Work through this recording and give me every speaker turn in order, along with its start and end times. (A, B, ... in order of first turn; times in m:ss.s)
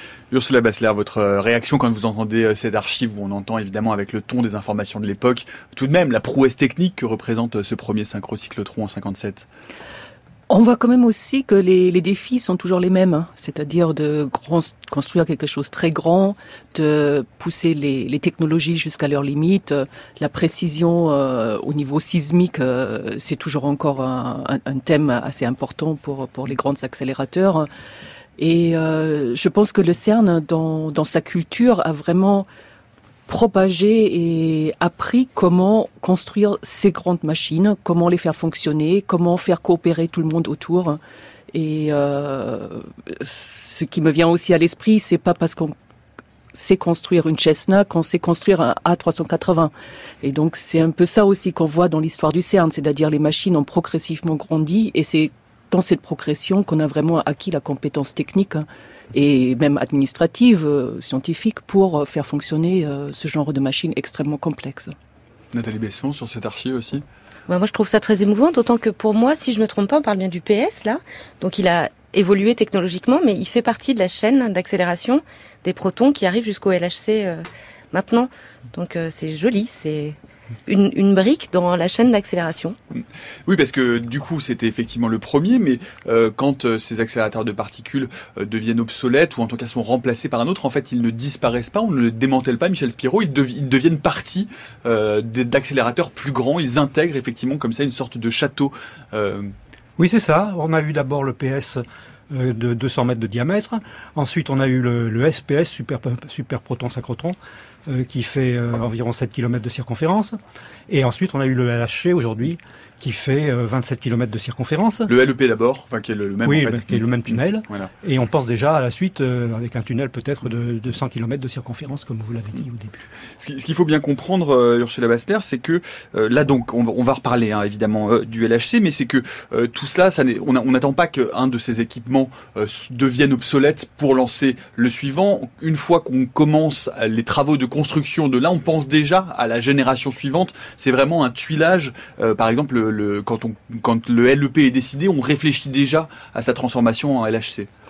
0:00.3-0:09.5 A
0:10.5-0:27.7 B
0:28.4-0:32.5 B
0:33.3-0:41.0 B
0:41.5-0:45.8 B
0:46.5-1:04.9 B
1:05.5-1:07.0 A
1:07.5-1:20.2 C
1:20.7-1:22.8 C
1:23.0-1:39.5 A
1:40.0-1:50.4 D
1:50.9-1:55.1 D
1:55.1-1:57.9 A
1:56.4-2:03.0 D
2:03.4-2:27.7 A